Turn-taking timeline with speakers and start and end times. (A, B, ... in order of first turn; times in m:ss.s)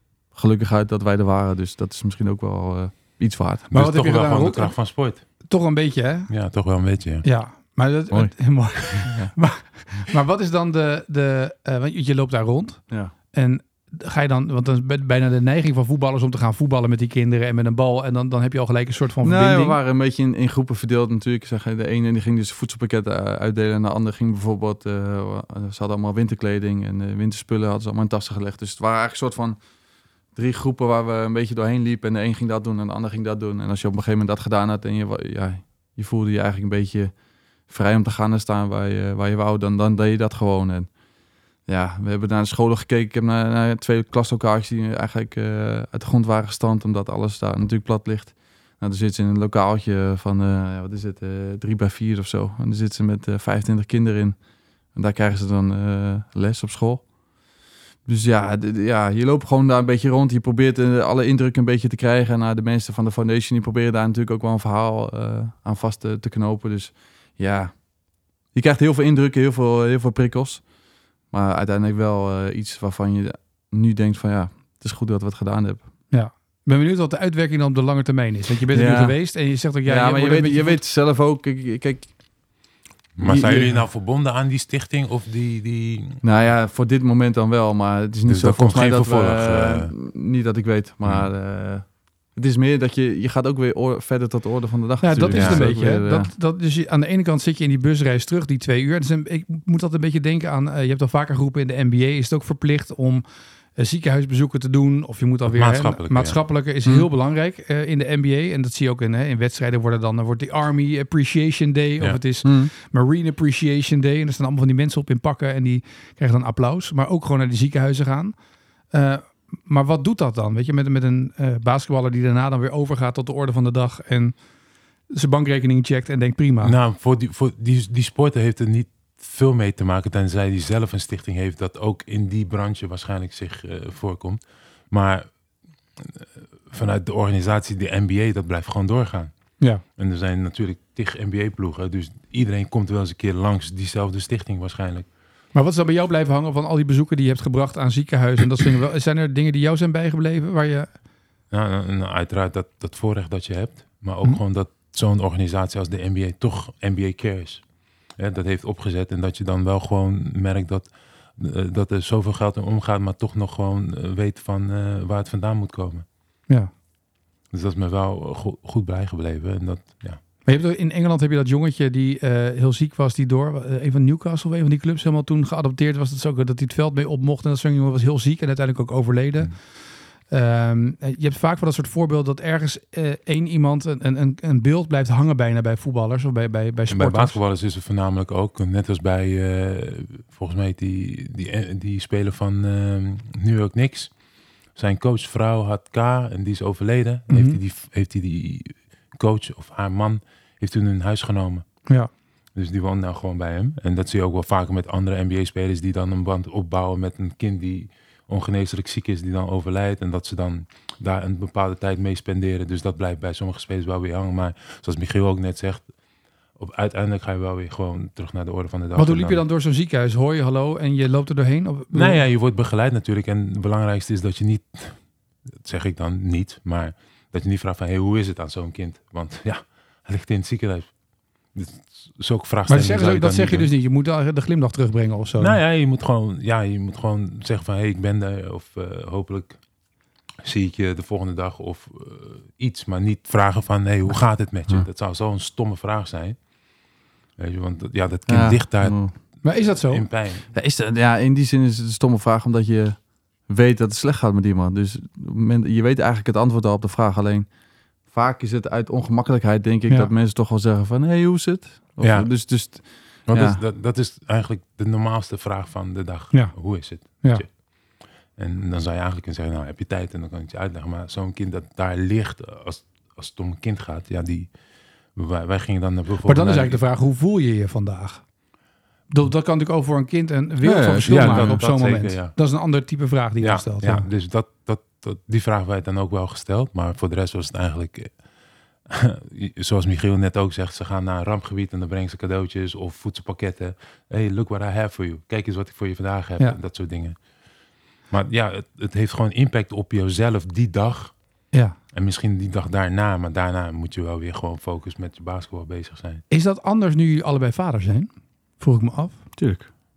0:00.3-0:03.7 A
0:03.7-0:05.2 B
0:03.7-0:04.7 C
0:05.5-0:06.3 C
0:06.3-0:07.2 B
0:07.2-0:12.8 C
0:08.9-0:09.4 A
0:13.3-0:19.8 C
0:19.2-0:29.6 A
0:30.4-0:37.1 A
0:37.7-0:40.9 A
0:41.7-0:54.4 A
0:55.0-0:57.0 A
0:58.1-1:07.8 A
1:08.5-1:10.6 A
1:11.3-1:15.8 A
1:16.1-1:20.8 C
1:18.7-1:19.2 A
1:19.8-1:22.1 A
1:23.2-1:26.2 B
1:23.2-1:23.8 A
1:26.2-1:36.3 A
1:28.3-1:29.9 B
1:35.0-1:43.2 C
1:35.3-1:35.6 B
1:43.8-1:58.3 C
1:45.5-1:46.4 B
1:52.4-1:52.7 A
1:58.9-2:04.4 C
2:05.1-2:06.8 C
2:06.6-2:15.3 B
2:16.0-2:19.3 B
2:20.0-2:25.1 B
2:25.5-2:30.9 C
2:31.5-2:37.6 B
2:38.2-2:46.0 B
2:47.5-2:50.2 B
2:50.5-2:59.5 C
3:00.3-3:07.4 C
3:06.9-3:14.1 B
3:14.8-3:21.6 B
3:17.3-3:17.6 C
3:22.6-3:35.9 B
3:36.6-3:39.4 B
3:39.0-3:42.2 C
3:41.9-3:45.0 B
3:45.6-3:50.9 B
3:51.6-3:53.7 B
3:52.7-3:55.6 C
3:55.4-3:59.6 B
4:00.4-4:06.4 B
4:07.4-4:09.0 B
4:08.3-4:09.1 A
4:09.4-4:10.0 C
4:09.9-4:10.5 B
4:10.5-4:17.5 A
4:18.1-4:23.6 A
4:22.0-4:22.3 B
4:23.3-4:27.5 B
4:28.4-4:34.5 B
4:35.2-4:36.8 B
4:36.3-4:38.2 C
4:39.1-4:44.1 C
4:40.6-4:41.6 A
4:41.0-4:42.3 B
4:43.4-4:48.1 B
4:48.9-4:57.2 B
4:58.1-5:01.1 B
5:01.9-5:06.2 B
5:06.3-5:08.1 C
5:08.6-5:09.2 C
5:09.4-5:09.7 A